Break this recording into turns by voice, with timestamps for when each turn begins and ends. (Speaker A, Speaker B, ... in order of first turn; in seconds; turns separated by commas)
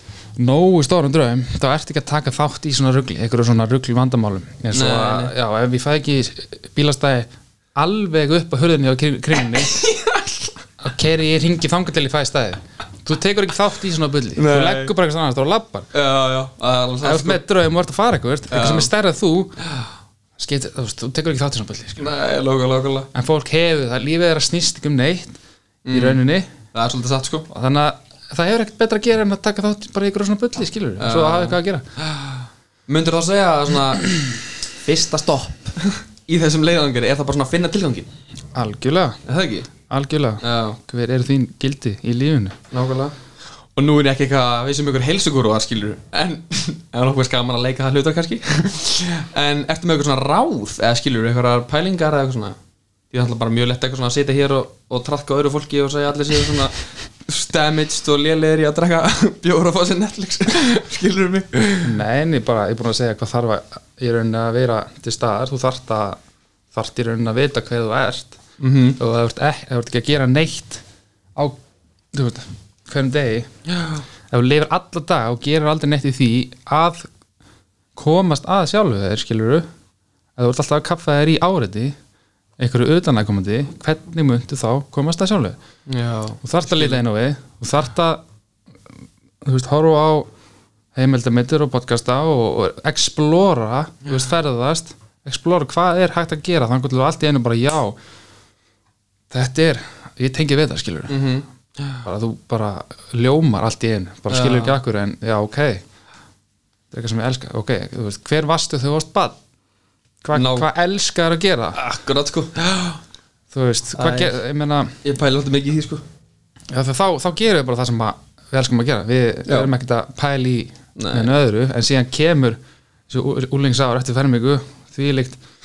Speaker A: 0.4-9.8, Speaker B: 4.7-5.3, Speaker B: 9.6-10.5, Speaker A: 10.8-15.9, Speaker B: 14.4-14.9, Speaker B: 15.9-17.4, Speaker A: 17.0-19.6, Speaker B: 18.5-18.9, Speaker A: 20.4-22.1, Speaker B: 22.0-23.1, Speaker A: 23.1-25.4, Speaker B: 25.9-26.2, Speaker A: 25.9-26.5, Speaker B: 26.7-27.5, Speaker A: 27.5-31.9, Speaker B: 31.0-38.1, Speaker A: 38.5-39.2, Speaker B: 39.2-39.7, Speaker A: 39.9-42.6, Speaker B: 40.4-40.8, Speaker B: 42.7-43.2, Speaker B: 43.8-52.6, Speaker B: 53.1-61.9, Speaker A: 61.8-66.2, Speaker A: 66.7-68.4, Speaker B: 68.6-69.0, Speaker A: 69.0-70.8, Speaker A: 72.1-73.5, Speaker A: 74.3-77.1, Speaker A: 78.0-79.7, Speaker A: 80.4-82.0, Speaker A: 82.6-85.6, Speaker B: 85.9-87.0, Speaker A: 86.4-88.2, Speaker A: 89.4-90.3, Speaker A: 91.0-98.0, Speaker A: 99.3-101.3, Speaker B: 101.1-101.5, Speaker A: 102.0-105.8, Speaker B: 104.3-104.8, Speaker A: 106.9-109.4, Speaker A: 110.2-111.8, Speaker B: 110.3-110.7, Speaker B: 111.8-113.0, Speaker A: 113.5-115.0, Speaker B: 114.0-114.3, Speaker B: 115.0-116.0, Speaker A: 116.7-125.4, Speaker B: 119.5-119.7, Speaker B: 121.0-121.3